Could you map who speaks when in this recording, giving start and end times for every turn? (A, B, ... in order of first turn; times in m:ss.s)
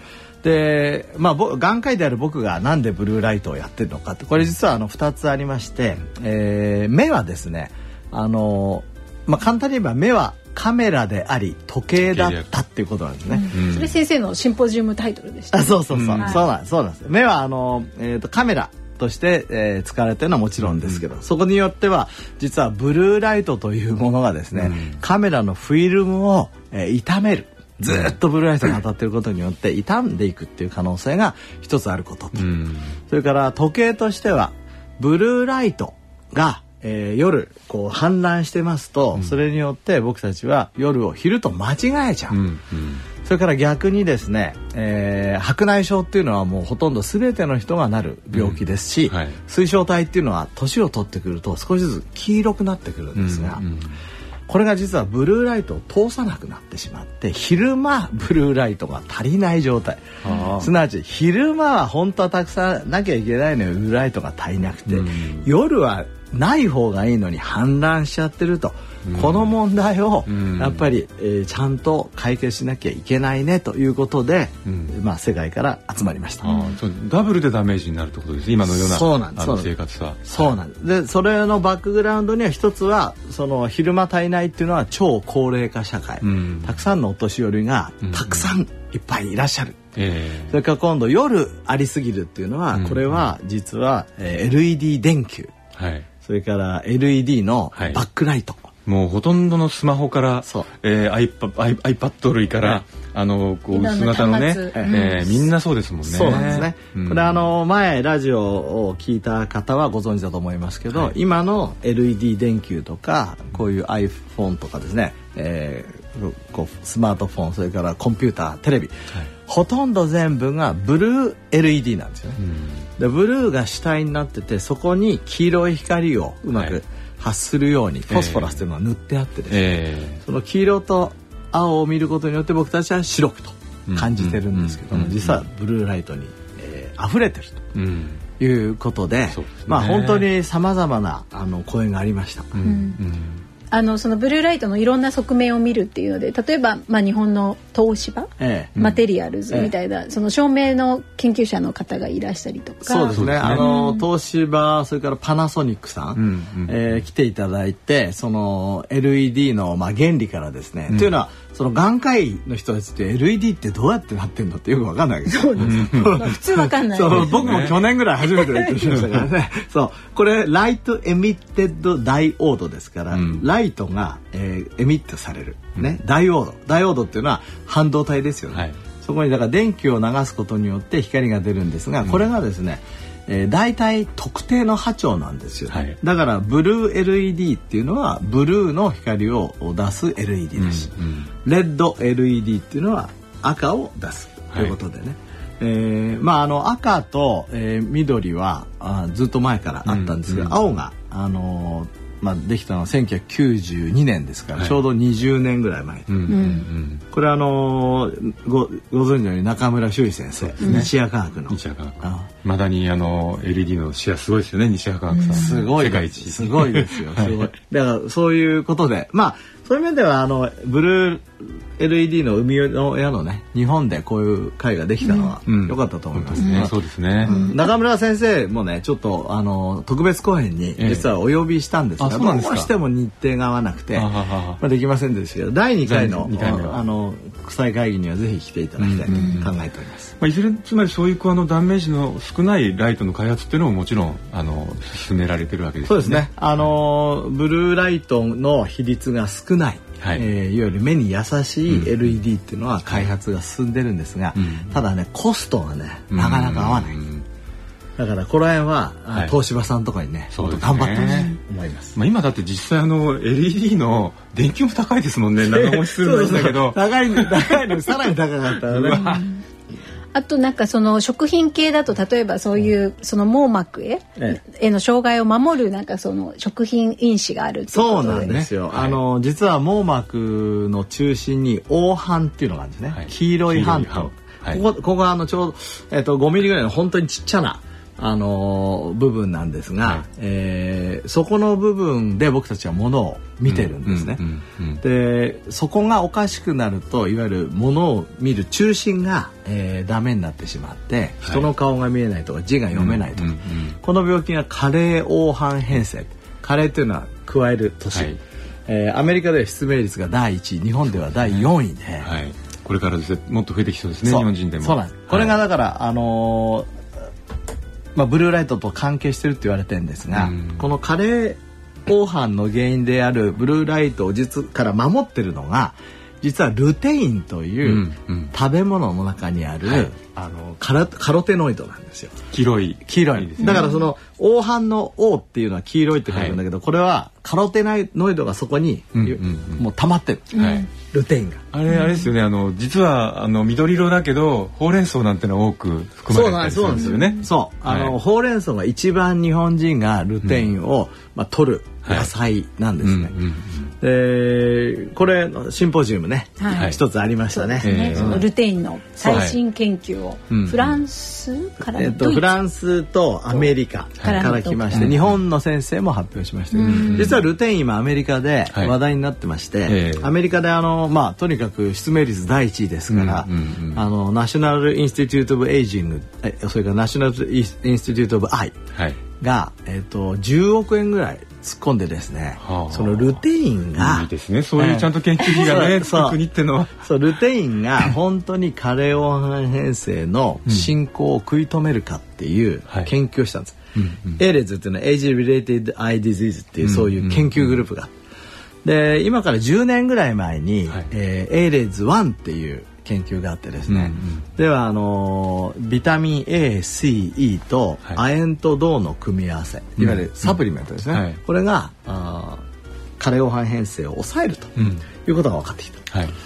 0:00.4-0:13.5 A
0:12.0-0:12.4 B
0:13.3-0:16.4 C
0:13.5-0:13.9 B
0:15.5-0:32.5 A
0:15.9-0:16.4 B
0:20.6-0:21.0 B
0:24.5-0:25.0 B
0:32.4-0:32.9 B
0:33.1-0:42.4 A
0:42.3-0:43.0 B
0:43.2-0:53.6 A
0:48.3-0:49.4 B
0:53.2-0:54.0 B
0:54.5-1:16.5 A
1:00.2-1:00.7 B
1:04.9-1:05.5 B
1:09.0-1:09.5 B
1:10.3-1:10.8 B
1:14.6-1:14.9 B
1:16.4-1:20.5 B
1:16.4-1:16.7 C
1:18.6-1:19.7 A
1:20.2-1:29.9 A
1:26.2-1:26.8 B
1:28.0-1:28.5 B
1:30.0-1:30.5 B
1:30.5-1:35.5 A
1:32.7-1:33.3 B
1:35.8-1:36.1 B
1:36.2-1:38.7 A
1:37.7-1:38.0 B
1:38.8-1:47.4 B
1:43.7-1:45.5 C
1:46.0-1:58.9 A
1:46.2-1:46.6 C
1:59.5-2:02.4 A
2:02.4-2:02.8 B
2:03.0-2:17.7 A
2:06.5-2:06.8 B
2:08.1-2:08.6 B
2:09.5-2:10.2 B
2:13.9-2:15.4 B
2:17.7-2:18.2 B
2:18.4-2:22.6 A
2:19.3-2:20.3 B
2:22.5-2:23.4 B
2:22.6-2:23.0 C
2:23.7-2:34.0 C
2:28.4-2:28.7 A
2:28.8-2:29.0 B
2:32.8-3:10.9 A
2:33.1-2:33.7 B
2:36.2-2:36.8 B
2:40.9-2:41.2 B
2:45.3-2:48.9 C
2:45.6-2:46.3 B
2:47.0-2:47.8 B
2:53.1-2:53.4 B
2:58.5-2:58.8 B
3:05.7-3:06.0 B
3:10.6-3:11.3 B
3:11.4-3:26.1 A
3:19.8-3:20.6 B
3:26.1-3:27.0 B
3:26.3-3:26.7 C
3:27.1-3:32.3 A
3:30.4-3:30.9 B
3:30.6-3:30.9 C
3:31.5-3:37.4 B
3:35.1-3:35.6 C
3:35.3-4:00.1 A
3:45.0-3:45.3 C
3:45.4-3:47.4 B
3:46.4-3:46.7 C
3:47.2-3:47.7 C
3:50.8-3:51.1 B
3:52.0-3:52.7 B
3:54.0-3:54.6 B
3:55.8-3:56.8 B
3:58.8-3:59.5 B
3:59.1-3:59.4 C
4:00.2-4:06.3 B
4:05.8-4:17.0 A
4:10.0-4:10.3 B
4:11.7-4:12.0 B
4:14.4-4:14.8 B
4:16.1-4:17.2 B
4:18.0-4:22.0 A
4:20.3-4:21.3 B
4:21.0-4:21.4 C
4:21.9-4:27.5 B
4:25.4-4:29.2 A
4:28.7-4:29.2 B
4:28.9-4:29.4 C
4:30.1-4:38.4 C
4:37.7-4:54.2 A
4:38.3-4:39.0 B
4:42.9-4:44.6 B
4:53.5-4:54.8 B
4:54.8-5:08.1 A
5:02.7-5:03.8 B
5:07.9-5:08.2 B
5:08.7-5:12.1 A
5:10.9-5:11.5 B
5:12.0-5:15.4 B
5:14.0-5:16.7 A
5:17.9-5:29.9 A
5:20.1-5:20.7 B
5:27.6-5:28.3 B
5:29.6-5:30.6 B
5:30.6-5:32.2 A
5:32.3-5:33.7 B
5:32.9-5:41.4 A
5:33.4-5:33.8 C
5:36.1-5:36.4 B
5:38.9-5:39.6 B
5:40.3-5:40.6 B
5:40.3-5:40.7 C
5:41.5-5:47.9 B
5:41.7-5:42.1 C
5:46.1-5:53.2 A
5:46.7-5:47.3 C
5:50.2-5:50.5 B
5:51.8-5:52.1 B
5:52.8-5:53.7 B
5:53.8-5:58.3 A
5:56.4-6:02.3 C
5:56.5-5:56.8 B
5:57.6-5:58.2 B
5:59.0-5:59.3 A
5:59.0-5:59.4 B
6:00.3-6:00.8 B
6:01.7-6:18.6 A
6:04.0-6:05.1 B
6:04.0-6:05.0 C
6:06.5-6:07.2 C
6:06.6-6:07.2 B
6:09.7-6:10.1 B
6:12.9-6:13.9 B
6:19.2-6:26.2 A
6:22.4-6:23.2 B
6:23.8-6:26.8 B
6:26.8-6:33.6 A
6:33.8-6:34.2 B
6:34.2-6:37.9 A
6:36.6-6:37.6 B
6:38.6-6:52.4 A
6:43.7-6:44.2 B
6:49.8-6:50.4 B
6:50.9-6:51.2 B
6:53.0-6:55.9 A
6:54.6-6:54.8 B